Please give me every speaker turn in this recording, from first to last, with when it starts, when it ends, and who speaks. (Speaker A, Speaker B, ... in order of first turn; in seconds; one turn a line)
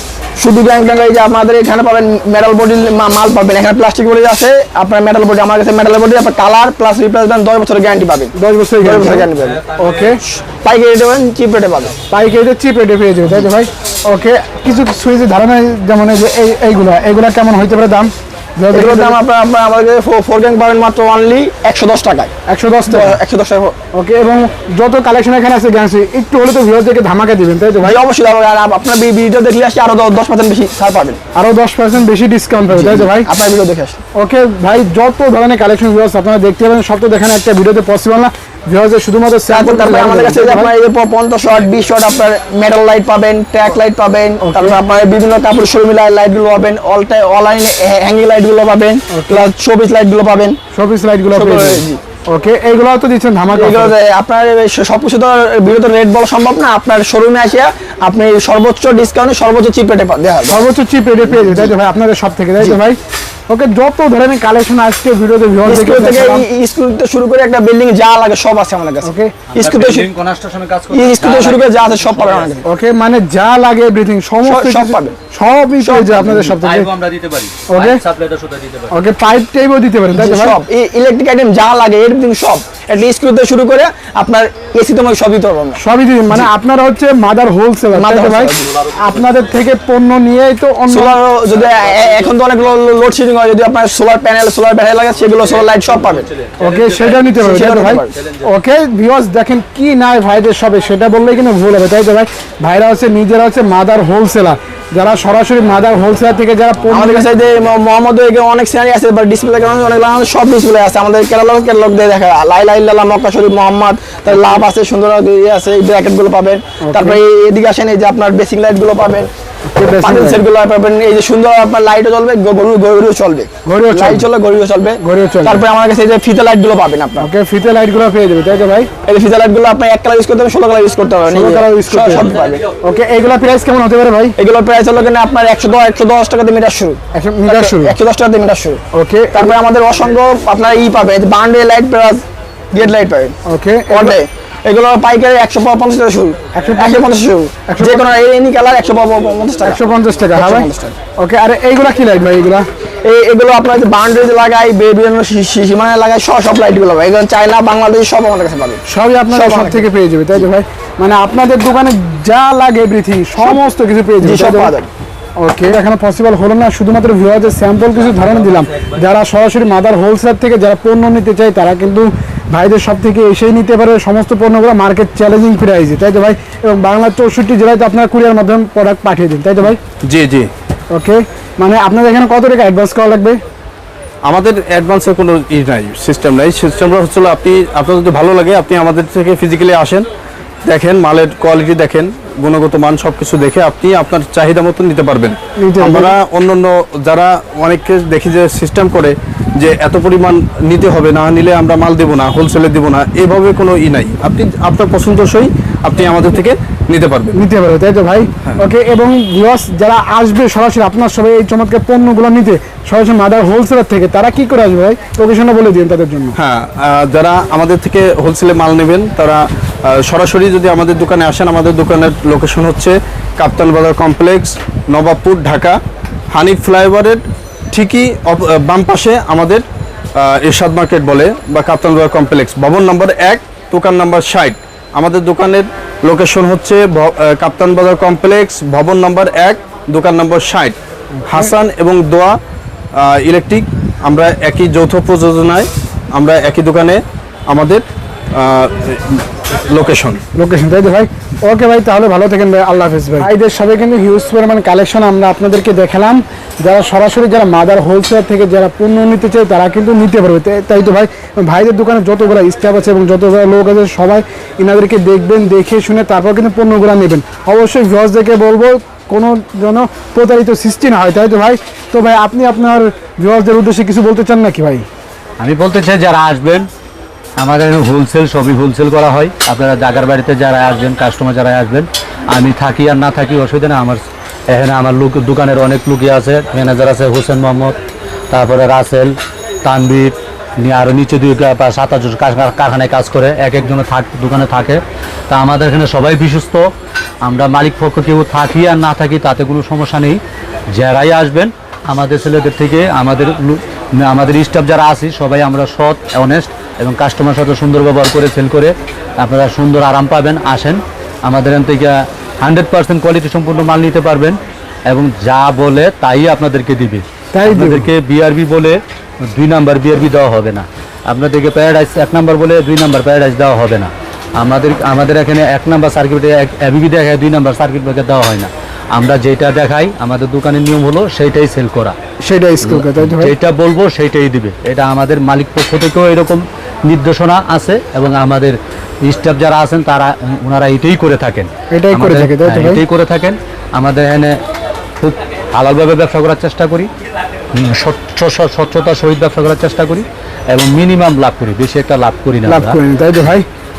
Speaker A: 0.4-9.6
Speaker B: 8.3-10.2
Speaker C: 9.8-10.1
Speaker A: 10.5-11.9
Speaker B: 12.1-19.2
Speaker A: 18.7-22.3
Speaker B: 22.5-23.2
Speaker A: 22.9-23.8
Speaker B: 23.9-28.0
Speaker A: 27.8-31.2
Speaker B: 31.3-33.3
Speaker A: 32.7-34.0
Speaker B: 34.1-40.7
Speaker A: 39.5-50.6
Speaker B: 44.4-44.8
Speaker B: 49.1-49.5
Speaker B: 50.7-53.9
Speaker A: 51.3-52.0
Speaker A: 53.5-60.6
Speaker B: 60.5-66.5
Speaker A: 61.3-61.6
Speaker A: 65.6-70.1
Speaker B: 69.0-69.4
Speaker C: 69.5-72.5
Speaker A: 70.9-72.6
Speaker B: 72.6-76.9
Speaker A: 74.4-75.2
Speaker A: 75.8-76.5
Speaker C: 76.6-78.9
Speaker B: 77.7-78.0
Speaker B: 78.9-80.5
Speaker A: 80.1-85.8
Speaker B: 85.8-91.2
Speaker A: 87.9-88.7
Speaker A: 90.9-96.3
Speaker B: 96.6-107.3
Speaker A: 97.3-98.1
Speaker A: 106.9-119.3
Speaker B: 116.8-117.2
Speaker B: 119.7-120.4
Speaker A: 119.9-127.3
Speaker B: 123.7-124.3
Speaker B: 125.0-125.6
Speaker B: 127.2-128.9
Speaker A: 129.0-132.6
Speaker B: 131.3-134.3
Speaker A: 134.4-138.8
Speaker B: 137.1-138.0
Speaker B: 138.9-139.5
Speaker A: 139.3-143.3
Speaker B: 143.4-144.2
Speaker A: 143.9-151.0
Speaker B: 146.5-147.1
Speaker B: 147.7-148.1
Speaker B: 149.6-152.7
Speaker A: 153.0-159.9
Speaker B: 158.8-164.7
Speaker A: 164.2-164.9
Speaker B: 165.4-179.8
Speaker D: 180.0-180.5
Speaker B: 180.9-183.4
Speaker D: 184.2-190.1
Speaker D: 190.6-207.4
Speaker B: 195.6-196.1
Speaker B: 207.3-216.4
Speaker D: 216.3-225.8
Speaker D: 226.3-229.6
Speaker D: 230.2-242.4
Speaker B: 241.2-241.5
Speaker D: 242.9-250.2
Speaker B: 250.3-274.9
Speaker C: 275.4-276.7
Speaker C: 277.4-287.8
Speaker C: 288.3-296.7
Speaker C: 297.2-300.2
Speaker C: 300.7-331.9
Speaker B: 317.3-317.9
Speaker B: 332.2-333.3
Speaker C: 332.6-344.4
Speaker B: 341.7-342.8
Speaker C: 345.0-346.9
Speaker C: 347.5-352.8
Speaker B: 352.4-353.4